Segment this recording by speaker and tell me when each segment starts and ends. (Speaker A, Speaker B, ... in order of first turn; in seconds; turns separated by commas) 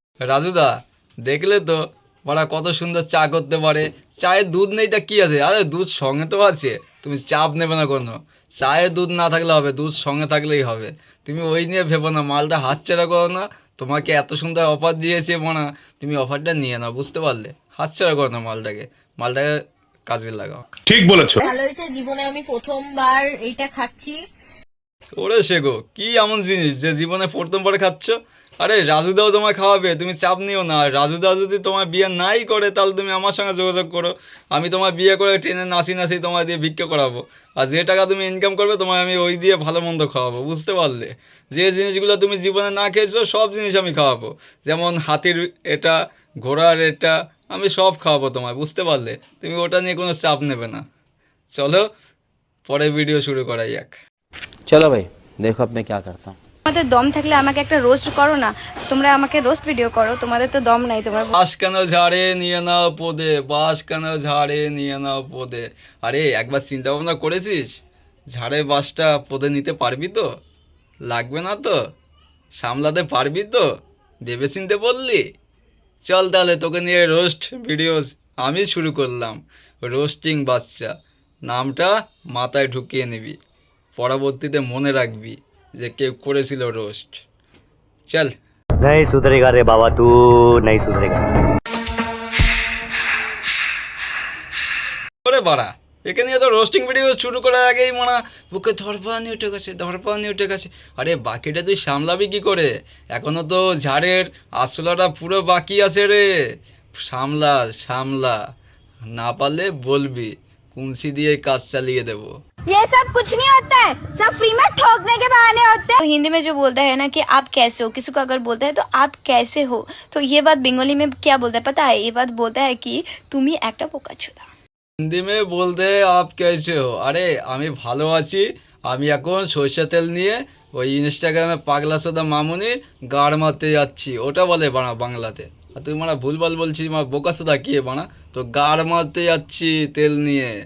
Speaker A: 0.2-19.5, Speaker A: 20.1-20.6, Speaker B: 20.9-21.3, Speaker C: 21.4-24.2, Speaker A: 25.2-50.8, Speaker A: 51.5-51.9, Speaker A: 52.6-54.0, Speaker B: 54.7-56.4, Speaker D: 56.6-61.3, Speaker A: 61.3-67.8, Speaker A: 68.3-70.3, Speaker A: 71.1-71.8, Speaker A: 72.5-73.7, Speaker A: 74.2-75.3, Speaker A: 76.0-80.9, Speaker A: 81.5-83.4, Speaker A: 84.0-87.2, Speaker E: 88.8-91.2, Speaker A: 95.2-106.2, Speaker A: 107.1-108.4, Speaker A: 109.2-112.3, Speaker F: 112.7-116.0, Speaker D: 116.0-124.5, Speaker A: 125.0-140.5